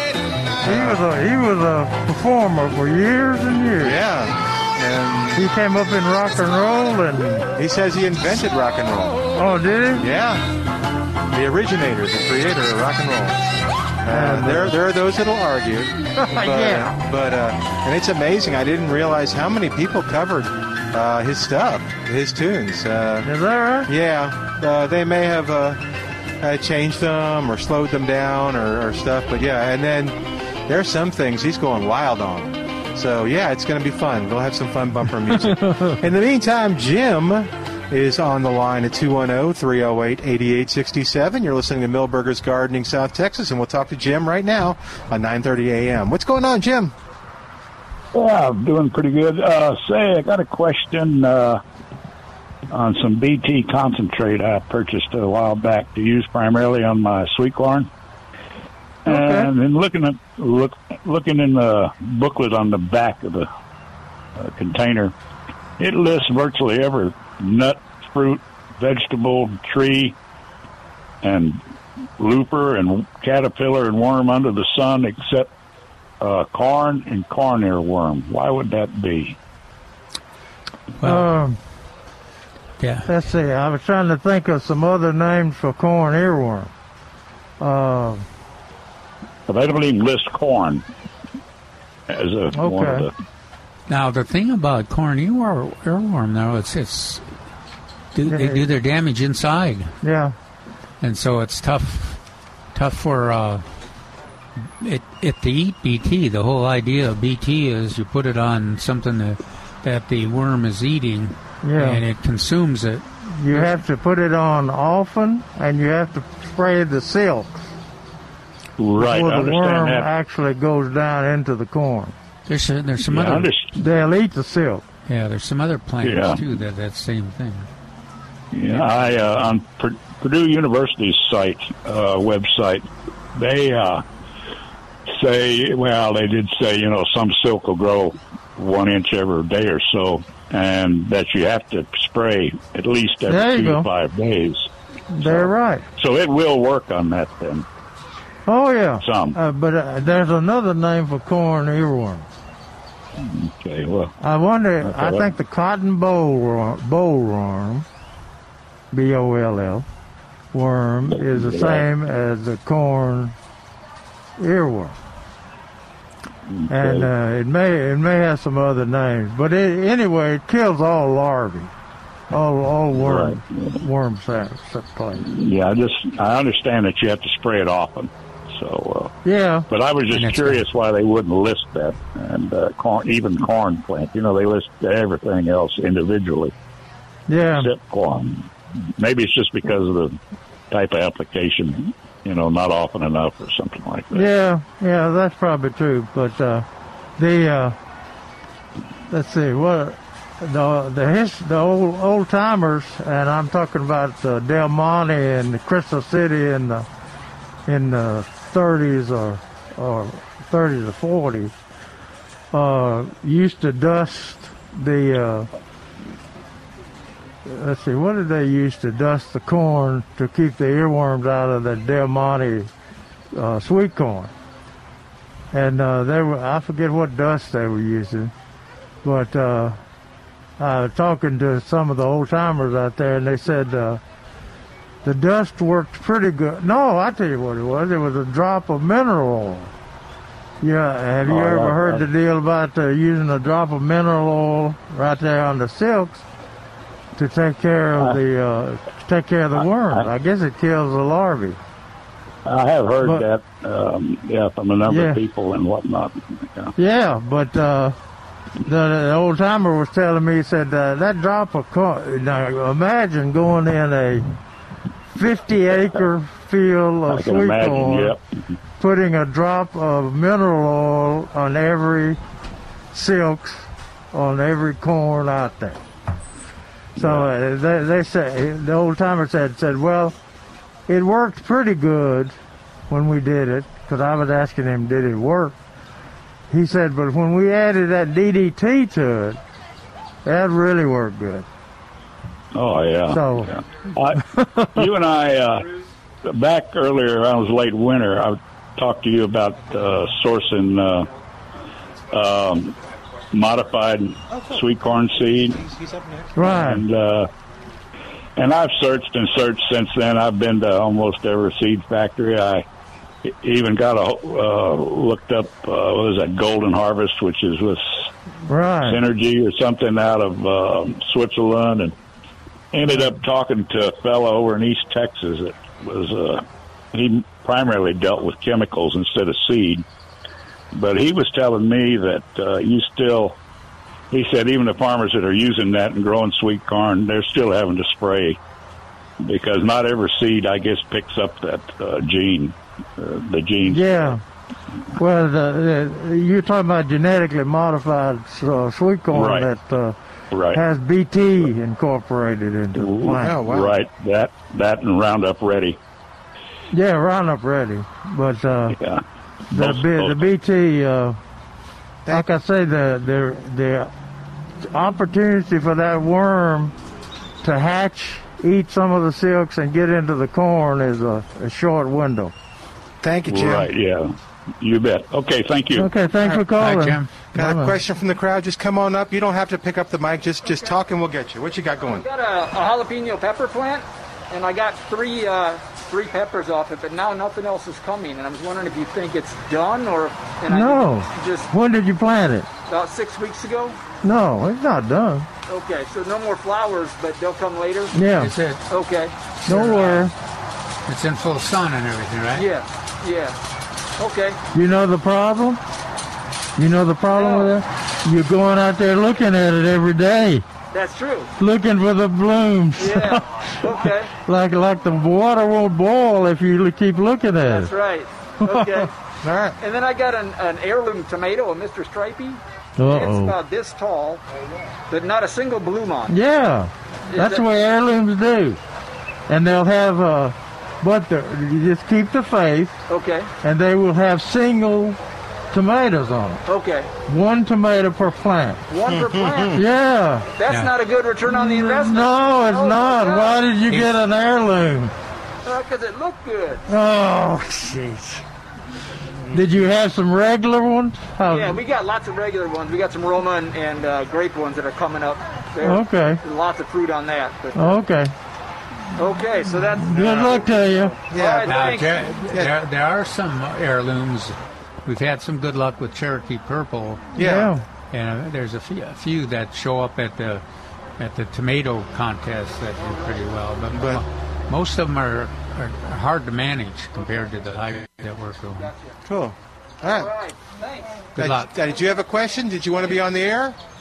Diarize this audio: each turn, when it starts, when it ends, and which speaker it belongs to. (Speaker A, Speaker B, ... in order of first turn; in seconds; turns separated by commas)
Speaker A: 0.6-1.0, Speaker B: 0.6-4.0, Speaker A: 3.8-5.4, Speaker B: 5.3-7.5, Speaker A: 7.5-9.2, Speaker B: 9.3-10.1, Speaker A: 10.0-10.4, Speaker A: 11.3-13.4, Speaker A: 14.0-23.3, Speaker B: 14.1-14.8, Speaker B: 16.2-16.9, Speaker B: 23.2-23.9, Speaker A: 23.9-25.8, Speaker A: 26.4-46.9, Speaker B: 35.5-36.0, Speaker C: 48.1-51.6, Speaker C: 52.7-57.9, Speaker C: 59.1-63.5, Speaker B: 59.1-59.5, Speaker C: 64.4-65.1, Speaker C: 65.8-70.2, Speaker C: 71.2-71.6, Speaker C: 72.2-75.5, Speaker C: 76.2-79.4, Speaker D: 81.0-81.3, Speaker B: 81.0-81.6, Speaker D: 82.8-83.1, Speaker B: 83.1-86.7, Speaker B: 87.6-88.2, Speaker C: 89.5-90.8, Speaker C: 92.1-93.1, Speaker B: 92.5-93.1, Speaker D: 93.9-97.2, Speaker D: 98.1-99.9, Speaker B: 98.3-98.7, Speaker B: 100.0-100.3, Speaker D: 101.0-102.2, Speaker D: 102.7-103.6, Speaker D: 104.8-113.8, Speaker B: 111.6-112.0, Speaker B: 113.4-117.6, Speaker C: 118.8-120.1, Speaker B: 119.0-122.1, Speaker D: 122.5-123.5, Speaker C: 123.0-123.7, Speaker B: 123.8-124.8, Speaker D: 125.1-127.7, Speaker C: 126.0-126.4, Speaker C: 128.5-134.0, Speaker D: 128.7-129.2, Speaker C: 135.1-144.7, Speaker B: 143.3-143.9, Speaker B: 145.1-145.8, Speaker C: 145.2-147.7, Speaker B: 148.5-152.3, Speaker C: 149.0-149.4, Speaker C: 153.2-154.1, Speaker B: 154.2-157.9, Speaker C: 154.8-155.3, Speaker B: 158.9-159.9, Speaker B: 160.5-163.3, Speaker C: 161.1-161.9, Speaker B: 164.4-165.0, Speaker C: 166.5-167.1, Speaker B: 166.7-171.7, Speaker B: 172.3-175.3, Speaker C: 172.9-173.8, Speaker C: 175.2-179.1, Speaker B: 179.2-179.7, Speaker C: 179.7-186.5, Speaker D: 180.1-180.6, Speaker B: 187.3-187.7, Speaker C: 187.6-190.2, Speaker C: 190.7-194.3, Speaker B: 194.1-196.7, Speaker B: 197.2-197.8, Speaker B: 199.1-206.9, Speaker B: 207.7-211.5, Speaker B: 212.5-215.5, Speaker B: 217.4-222.7, Speaker B: 223.3-224.3, Speaker B: 225.5-228.3, Speaker B: 229.0-229.8, Speaker B: 230.6-234.0, Speaker B: 235.0-239.7, Speaker B: 240.6-246.2, Speaker C: 241.2-242.0, Speaker B: 247.2-251.6, Speaker C: 249.6-250.1, Speaker C: 252.4-256.7, Speaker B: 254.8-255.2, Speaker B: 256.8-257.9, Speaker B: 258.6-264.3, Speaker B: 265.1-268.1, Speaker C: 267.1-268.2, Speaker B: 268.8-272.2, Speaker B: 272.9-275.8, Speaker C: 277.0-277.3, Speaker B: 277.0-280.1, Speaker B: 280.9-282.3, Speaker B: 282.9-285.6, Speaker B: 286.5-289.4, Speaker B: 290.2-291.5, Speaker C: 292.5-301.1, Speaker B: 293.1-293.6, Speaker B: 294.3-294.9, Speaker C: 302.1-302.7, Speaker C: 303.3-305.6, Speaker A: 305.6-306.3, Speaker B: 306.4-306.8, Speaker C: 306.4-307.3, Speaker C: 308.4-312.7, Speaker C: 313.2-317.8, Speaker B: 318.5-319.0, Speaker C: 318.9-321.9, Speaker C: 322.7-329.8, Speaker C: 330.7-333.4, Speaker C: 334.1-338.4, Speaker C: 339.2-344.2, Speaker B: 343.6-344.2, Speaker B: 344.9-349.9, Speaker C: 349.1-349.5, Speaker C: 350.3-350.6, Speaker B: 350.5-353.4, Speaker C: 352.8-355.8, Speaker A: 353.2-353.7, Speaker B: 356.7-358.8, Speaker C: 358.7-360.3, Speaker B: 359.5-361.2, Speaker B: 362.1-363.9, Speaker B: 364.6-366.7, Speaker B: 367.4-372.3, Speaker A: 373.0-373.7, Speaker C: 373.3-375.9, Speaker B: 375.7-377.8, Speaker D: 376.3-377.1, Speaker A: 377.3-382.1, Speaker E: 381.9-391.5, Speaker B: 390.4-392.5, Speaker E: 392.6-393.8, Speaker B: 394.0-395.3, Speaker E: 395.5-398.0, Speaker B: 397.9-398.3, Speaker D: 398.1-398.6, Speaker E: 398.7-399.1, Speaker B: 399.5-400.1, Speaker D: 399.5-400.1, Speaker D: 400.9-402.5, Speaker E: 402.3-403.4, Speaker E: 404.0-404.4, Speaker B: 404.5-405.6, Speaker B: 406.6-410.4, Speaker E: 407.1-407.6, Speaker E: 410.7-411.3, Speaker B: 411.4-417.7, Speaker E: 412.8-414.1, Speaker E: 417.5-418.9, Speaker B: 418.4-418.8, Speaker A: 419.2-419.6, Speaker E: 419.6-424.2, Speaker B: 422.8-423.4, Speaker E: 424.9-426.1, Speaker B: 426.1-428.6, Speaker E: 427.1-427.4, Speaker B: 429.3-432.8, Speaker E: 432.9-433.3, Speaker B: 433.4-435.0, Speaker B: 435.5-436.4, Speaker E: 436.4-436.9, Speaker B: 437.1-438.6, Speaker E: 438.7-439.6, Speaker A: 438.9-439.6, Speaker B: 439.5-440.3, Speaker E: 440.4-443.5, Speaker D: 440.5-440.7, Speaker B: 441.3-444.9, Speaker E: 445.4-446.6, Speaker B: 446.7-448.2, Speaker B: 449.3-451.6, Speaker E: 451.3-457.8, Speaker B: 455.6-456.2, Speaker B: 457.6-458.1, Speaker E: 458.9-460.5, Speaker B: 459.8-460.9, Speaker A: 459.9-460.4, Speaker A: 461.1-461.6, Speaker E: 461.1-462.1, Speaker D: 461.5-467.1, Speaker B: 467.1-467.6, Speaker A: 467.1-467.5, Speaker D: 467.9-470.4, Speaker D: 471.0-478.7, Speaker A: 473.8-474.0, Speaker A: 479.1-480.1, Speaker E: 479.8-481.0, Speaker D: 481.2-481.5, Speaker A: 481.2-483.6